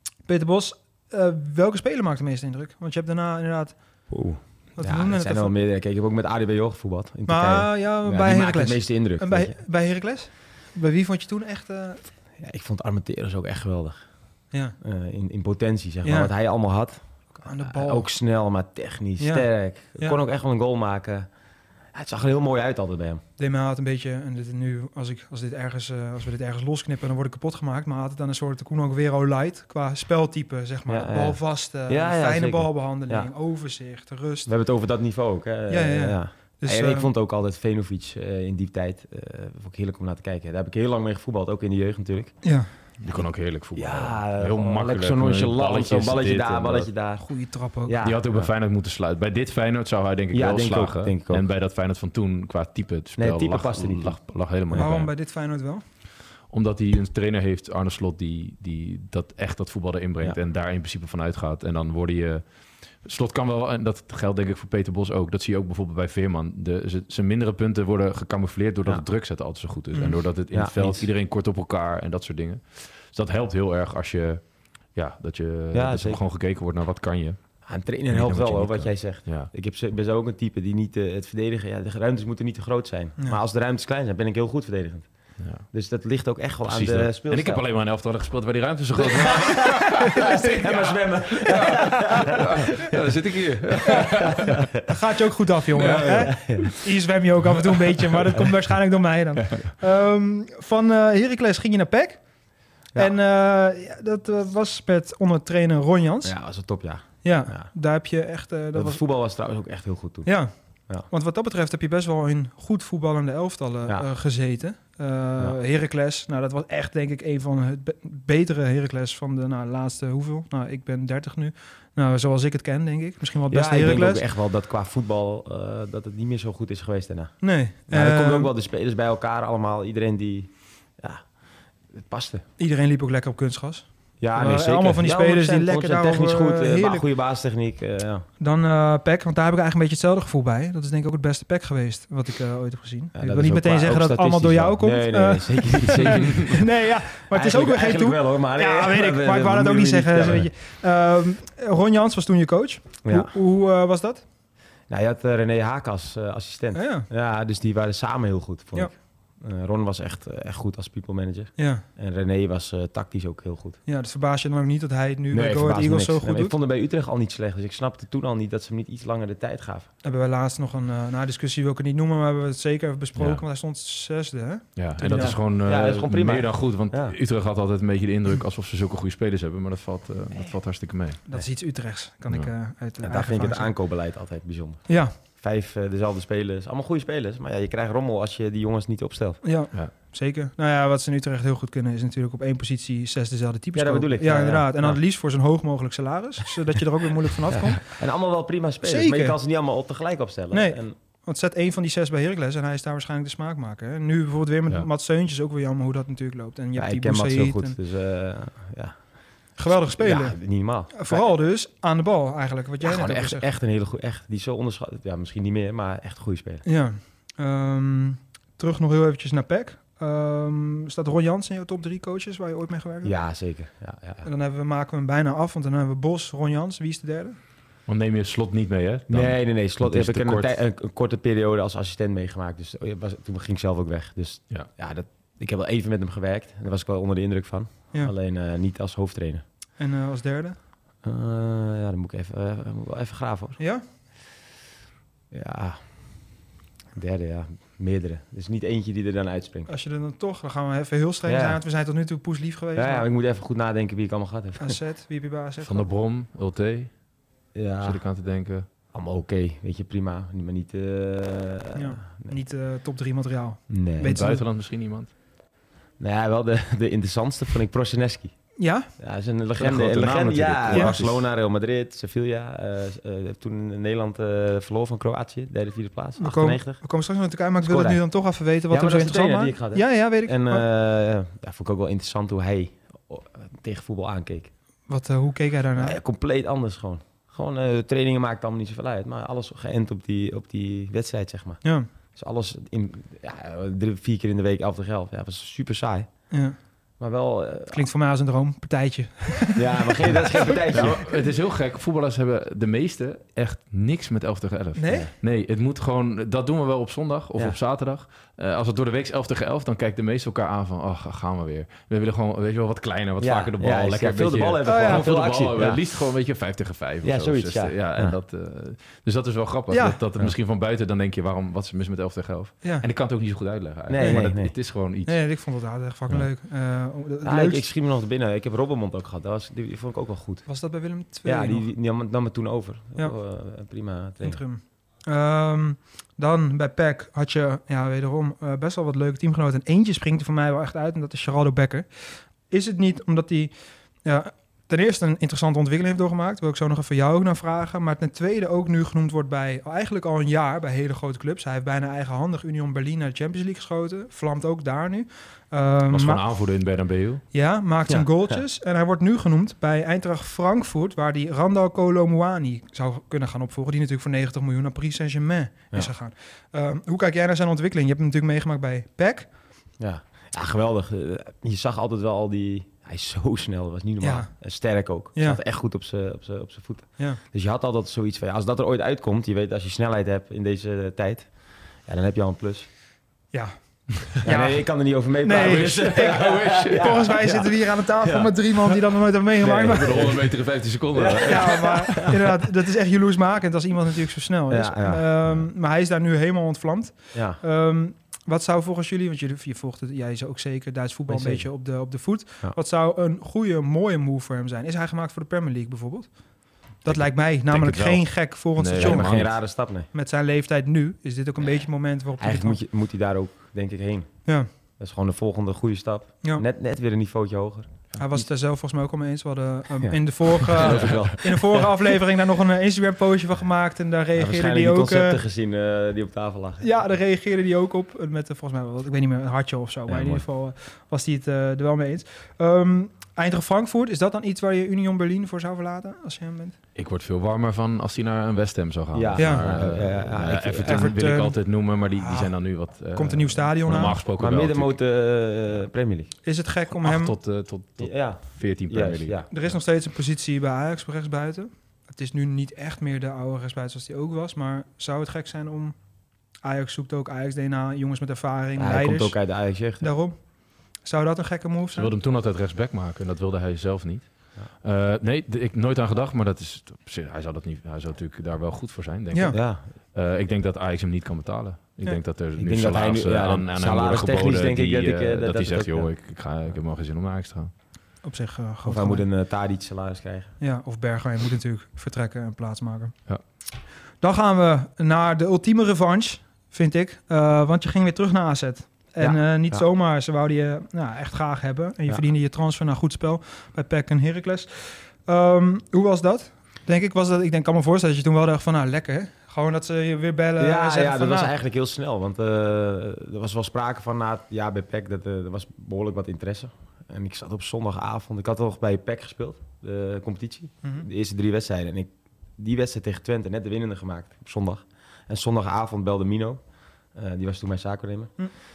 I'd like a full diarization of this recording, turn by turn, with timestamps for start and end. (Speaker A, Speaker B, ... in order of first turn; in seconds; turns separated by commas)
Speaker A: 0.2-3.8, Speaker B: 4.1-9.6, Speaker A: 4.8-5.5, Speaker A: 7.3-12.0, Speaker B: 12.4-14.0, Speaker A: 14.5-14.8, Speaker B: 14.8-17.0, Speaker A: 16.0-16.3, Speaker A: 17.4-18.1, Speaker B: 17.6-21.3, Speaker A: 19.2-20.2, Speaker B: 21.9-23.2, Speaker A: 23.4-34.5, Speaker B: 30.9-33.3, Speaker B: 34.5-42.4, Speaker A: 35.7-37.1, Speaker A: 42.4-42.7, Speaker C: 43.0-46.9, Speaker B: 43.7-47.2, Speaker A: 47.2-48.0, Speaker B: 47.9-48.5, Speaker C: 48.0-55.1, Speaker B: 50.3-51.4, Speaker B: 53.2-54.9, Speaker A: 54.8-55.8, Speaker C: 56.5-62.4, Speaker C: 63.0-79.5, Speaker B: 70.5-71.1, Speaker B: 75.7-76.2, Speaker B: 77.7-87.6, Speaker C: 85.4-85.7, Speaker C: 86.6-94.7, Speaker B: 89.0-93.1, Speaker A: 90.0-90.5, Speaker B: 93.9-94.6, Speaker A: 94.8-102.2, Speaker C: 95.8-96.7, Speaker B: 95.8-96.7, Speaker A: 102.9-106.4, Speaker B: 106.2-107.7, Speaker A: 107.2-109.0, Speaker B: 108.7-110.3, Speaker A: 110.2-124.2, Speaker B: 123.5-131.3, Speaker A: 127.4-128.5, Speaker B: 131.9-132.4, Speaker A: 132.6-137.0, Speaker B: 134.2-138.2, Speaker A: 138.4-154.2, Speaker B: 143.1-150.5, Speaker B: 153.0-153.3, Speaker B: 154.9-163.8, Speaker A: 156.7-157.1, Speaker A: 161.6-161.8, Speaker A: 163.9-166.5, Speaker B: 165.3-169.9, Speaker A: 170.0-175.4, Speaker C: 173.2-173.4, Speaker C: 174.8-181.2, Speaker B: 175.1-177.2, Speaker A: 181.2-183.7, Speaker B: 183.0-189.4, Speaker A: 184.9-185.1, Speaker A: 189.4-198.0, Speaker B: 193.7-195.0, Speaker B: 197.5-200.9, Speaker A: 198.8-199.4, Speaker A: 200.5-207.8, Speaker B: 206.8-211.3, Speaker A: 209.6-213.4, Speaker B: 212.8-216.6, Speaker A: 216.6-223.2, Speaker B: 223.0-224.3, Speaker A: 224.2-227.4, Speaker C: 227.9-230.6, Speaker B: 229.1-239.4, Speaker A: 239.8-240.6, Speaker B: 241.0-243.6, Speaker A: 243.6-243.8, Speaker B: 245.3-245.8, Speaker B: 246.9-249.7, Speaker A: 249.7-253.1, Speaker B: 251.2-251.6, Speaker B: 252.8-254.8, Speaker A: 254.6-255.9, Speaker C: 255.6-256.9, Speaker B: 257.5-258.0, Speaker C: 257.8-258.6, Speaker B: 258.9-262.4, Speaker A: 261.7-264.4, Speaker B: 263.7-264.2, Speaker C: 264.1-265.1, Speaker B: 266.0-268.4, Speaker A: 268.6-268.9, Speaker B: 269.0-276.8, Speaker C: 269.6-271.3, Speaker A: 270.7-270.9, Speaker A: 276.2-280.6, Speaker B: 277.6-278.0, Speaker B: 278.7-284.5, Speaker A: 284.9-286.0, Speaker B: 285.8-296.1, Speaker A: 296.3-296.6, Speaker B: 297.0-297.9, Speaker A: 297.7-301.0, Speaker B: 299.6-301.2, Speaker C: 300.7-325.4, Speaker A: 304.8-305.1, Speaker B: 313.2-315.8, Speaker A: 314.6-315.1, Speaker B: 317.0-318.2, Speaker A: 319.7-320.0, Speaker B: 323.9-324.5, Speaker A: 324.0-324.3, Speaker A: 325.0-327.6, Speaker B: 327.2-330.5, Speaker A: 330.5-331.7, Speaker B: 331.2-334.4, Speaker A: 334.2-343.5, Speaker A: 344.0-356.2, Speaker C: 355.9-357.2, Speaker A: 357.3-369.3, Speaker B: 357.9-358.4, Speaker B: 369.8-382.7, Speaker A: 374.0-374.3, Speaker A: 375.1-375.4, Speaker A: 383.3-390.1, Speaker B: 384.2-388.8, Speaker C: 385.3-387.1, Speaker B: 389.4-390.4, Speaker C: 389.6-392.0, Speaker B: 390.9-392.2, Speaker A: 391.2-406.2, Speaker B: 394.5-395.1, Speaker B: 397.1-397.4, Speaker B: 401.1-401.5, Speaker A: 406.8-412.6, Speaker C: 406.9-409.4, Speaker B: 408.8-409.9, Speaker B: 412.2-417.8, Speaker A: 417.9-425.2, Speaker B: 419.8-421.9, Speaker C: 420.7-421.0, Speaker B: 424.1-426.7, Speaker A: 426.6-436.6, Speaker B: 429.9-430.2, Speaker C: 436.7-444.8, Speaker B: 438.9-441.0, Speaker A: 439.1-442.3, Speaker A: 442.9-444.0, Speaker B: 443.7-446.1, Speaker A: 446.2-447.1, Speaker C: 446.8-449.5, Speaker B: 447.8-449.3, Speaker A: 449.3-455.8, Speaker A: 456.4-461.9, Speaker B: 458.6-459.9, Speaker C: 461.7-477.5, Speaker A: 469.1-469.4, Speaker B: 469.3-469.6, Speaker B: 472.4-475.9, Speaker A: 478.0-479.0, Speaker B: 478.6-480.4, Speaker A: 480.4-482.9, Speaker A: 484.0-501.3, Speaker B: 489.0-489.6, Speaker B: 500.4-516.4, Speaker B: 516.9-518.3